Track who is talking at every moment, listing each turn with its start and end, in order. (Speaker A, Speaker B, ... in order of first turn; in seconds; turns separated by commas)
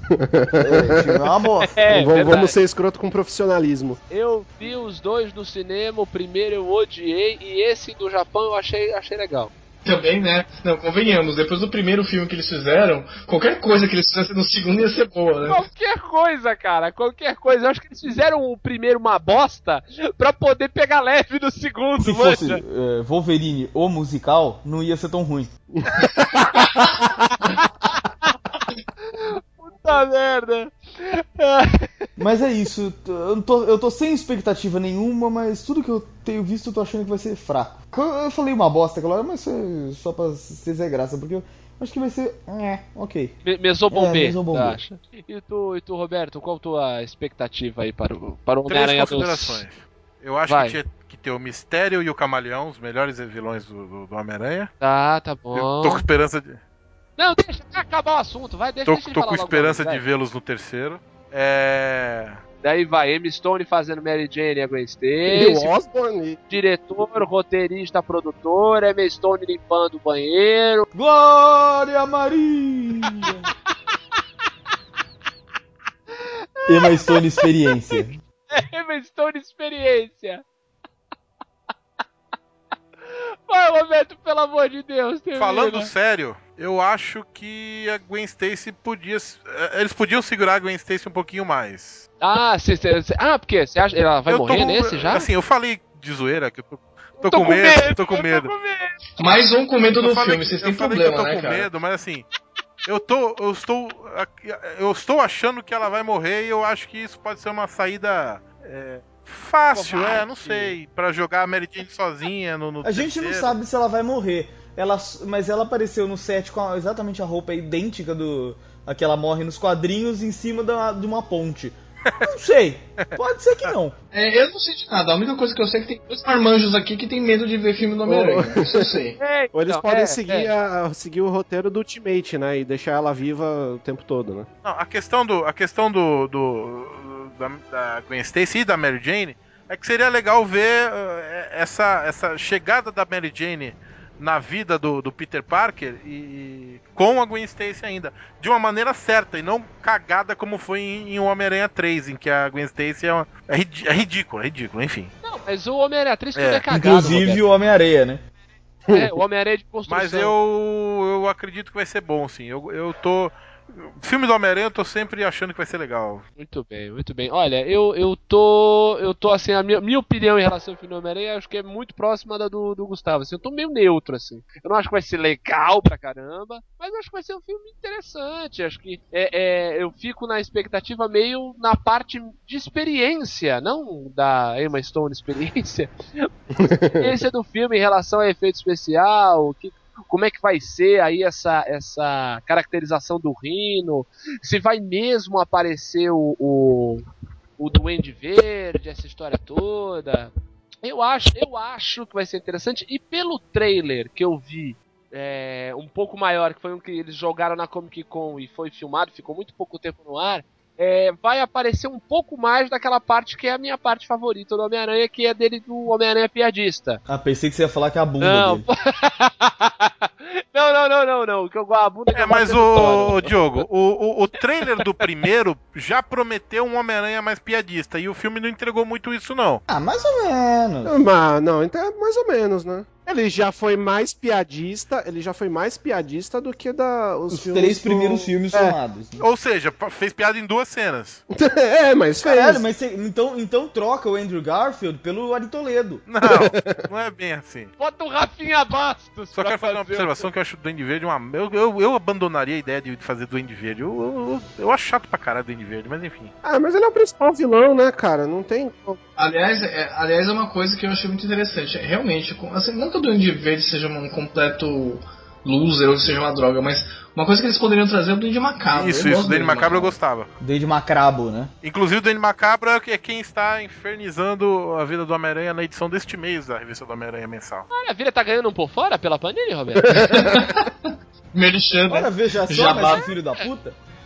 Speaker A: 0.1-1.2, Speaker B: 0.6-1.8, Speaker C: 1.7-2.6, Speaker A: 1.9-4.0, Speaker C: 4.1-9.5, Speaker D: 9.8-15.6, Speaker C: 15.4-22.6, Speaker B: 22.0-25.5, Speaker A: 25.7-26.2, Speaker A: 27.0-27.2, Speaker C: 29.1-32.1, Speaker B: 32.2-44.8, Speaker C: 43.4-49.6, Speaker E: 48.7-54.7, Speaker C: 50.5-50.8, Speaker C: 54.8-56.0, Speaker E: 55.5-56.6, Speaker C: 57.2-60.0, Speaker E: 58.9-62.4, Speaker C: 62.6-65.7, Speaker A: 65.3-66.4, Speaker C: 66.5-70.9, Speaker B: 70.9-73.5, Speaker C: 76.3-77.2, Speaker B: 76.7-78.2, Speaker C: 78.5-80.4, Speaker C: 83.1-85.9, Speaker E: 85.3-92.1, Speaker C: 92.2-95.3, Speaker E: 94.3-98.5, Speaker C: 97.2-99.0, Speaker D: 99.2-101.7, Speaker E: 100.0-102.2, Speaker E: 102.8-113.5, Speaker C: 109.7-110.8, Speaker B: 112.8-124.0, Speaker D: 124.1-129.2, Speaker A: 128.1-128.9, Speaker C: 129.2-130.5, Speaker A: 129.5-134.5, Speaker E: 134.6-155.1, Speaker C: 155.2-157.4, Speaker E: 156.3-156.6, Speaker B: 156.7-158.2, Speaker C: 158.9-160.3, Speaker E: 159.9-166.2, Speaker C: 166.4-186.3, Speaker A: 186.6-187.1, Speaker C: 186.9-197.0, Speaker C: 197.6-200.3, Speaker C: 200.8-217.0, Speaker B: 217.1-218.7, Speaker C: 218.2-223.3, Speaker E: 222.1-229.6, Speaker C: 224.8-225.1, Speaker B: 229.7-231.0, Speaker A: 230.8-238.7, Speaker B: 237.3-239.2, Speaker E: 239.2-241.2, Speaker A: 241.3-242.6, Speaker B: 242.2-246.0, Speaker E: 246.1-247.7, Speaker A: 246.2-246.8, Speaker C: 247.8-250.3, Speaker E: 249.3-256.3, Speaker A: 256.4-259.0, Speaker D: 259.2-269.9, Speaker E: 268.7-270.3, Speaker B: 270.4-271.5, Speaker E: 271.6-277.7, Speaker C: 277.7-279.9, Speaker A: 279.9-280.4, Speaker D: 280.0-283.1, Speaker B: 281.9-283.8